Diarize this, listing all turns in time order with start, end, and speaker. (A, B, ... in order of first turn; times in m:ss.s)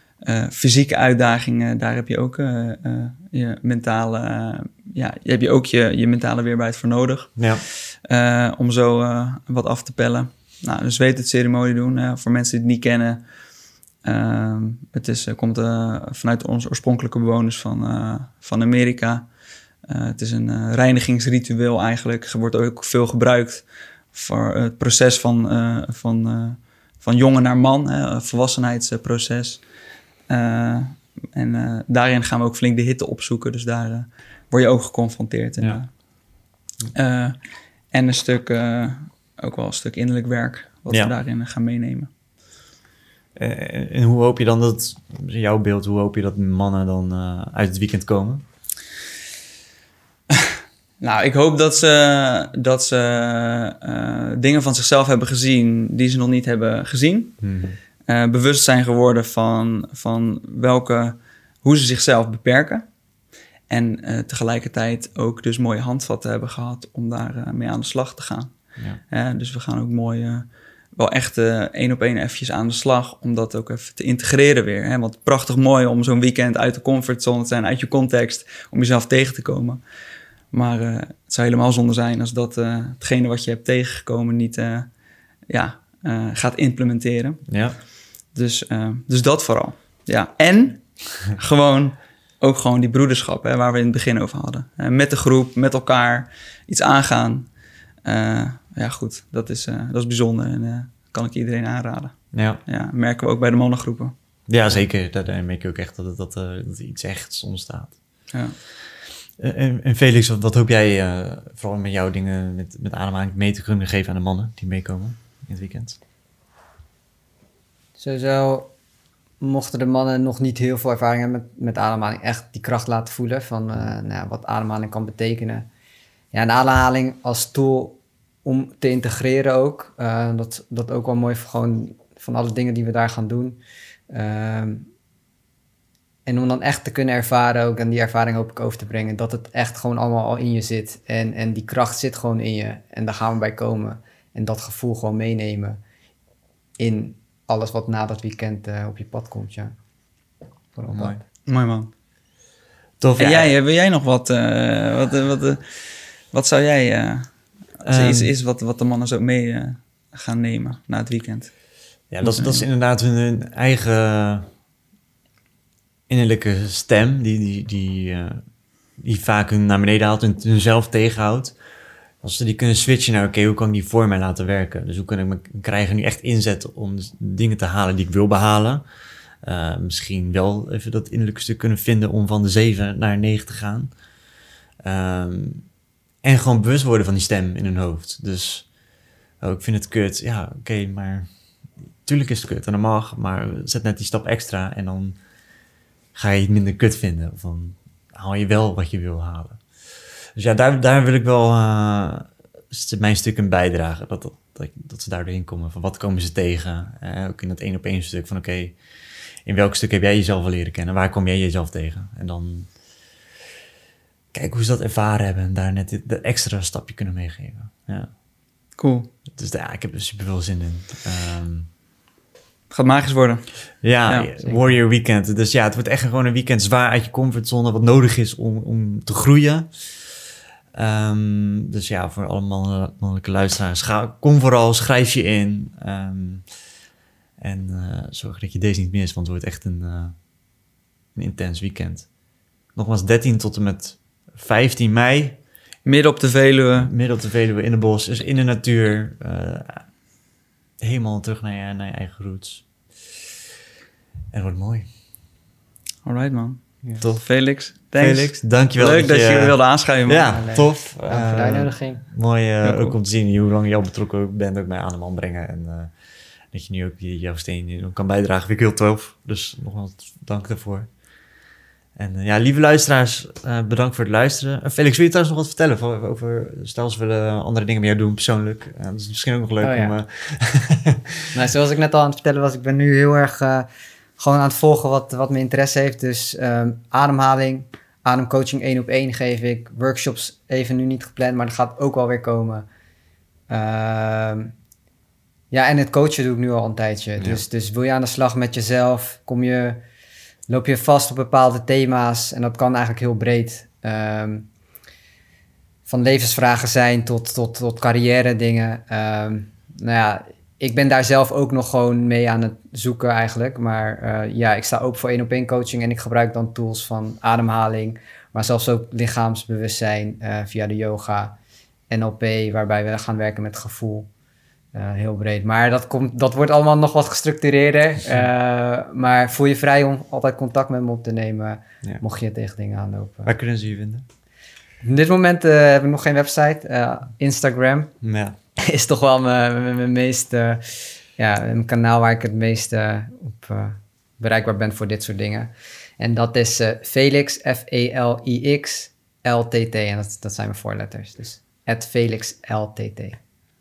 0:00.2-0:13.2 A
0:07.4-0:07.6 B
0:14.0-0:19.3 A
0:19.9-0:29.6 A
0:30.3-0:35.9 A
0:36.9-0:37.4 A
0:37.9-0:42.1 A
0:43.4-0:48.4 B
0:50.3-0:57.4 A
0:57.4-0:57.8 B
0:58.1-1:02.8 A
1:03.7-1:08.6 A
1:09.1-1:19.8 A
1:20.5-1:24.9 A
1:25.5-1:27.5 A
1:27.5-1:27.8 B
1:28.3-1:37.5 A
1:38.0-1:44.1 A
1:42.3-1:42.6 B
1:44.5-1:48.0 B
1:49.4-1:56.0 B
1:58.0-1:58.7 C
1:59.4-2:05.7 C
2:06.3-2:13.6 C
2:14.1-2:14.9 C
2:16.3-2:25.8 C
2:26.8-2:29.7 C
2:30.8-2:31.2 C
2:30.9-2:31.2 B
2:31.5-2:31.9 A
2:33.0-2:33.5 B
2:33.2-2:35.8 A
2:36.3-2:41.6 A
2:37.8-2:38.3 B
2:42.1-2:44.5 B
2:42.2-2:42.7 A
2:46.1-2:48.4 B
2:49.0-2:51.6 B
2:52.2-2:58.8 B
2:59.4-3:03.9 B
3:04.8-3:05.7 B
3:06.2-3:08.7 B
3:09.4-3:11.3 B
3:12.0-3:15.2 B
3:16.2-3:19.6 B
3:20.4-3:28.8 B
3:29.4-3:32.7 B
3:34.3-3:38.1 B
3:38.8-3:39.1 A
3:39.3-3:41.7 B
3:42.7-3:44.3 A
3:43.8-3:50.2 B
3:44.4-3:44.8 C
3:50.7-3:56.5 B
3:57.4-4:00.2 B
4:01.2-4:02.1 B
4:02.8-4:05.4 B
4:05.8-4:06.9 A
4:06.8-4:09.9 B
4:10.8-4:12.7 B
4:14.3-4:14.9 B
4:16.0-4:20.4 A
4:17.0-4:17.3 B
4:18.0-4:25.9 B
4:20.3-4:22.0 C
4:22.6-4:23.0 A
4:26.5-4:30.9 B
4:32.0-4:41.3 B
4:39.6-4:40.0 C
4:41.3-4:43.7 C
4:44.2-4:52.7 C
4:53.5-4:54.5 C
4:55.5-4:59.8 C
5:00.5-5:04.5 C
5:05.9-5:21.4 C
5:21.9-5:24.1 C
5:24.7-5:33.3 C
5:33.2-5:34.0 B
5:34.8-5:37.9 C
5:38.0-5:38.4 B
5:38.6-5:53.2 C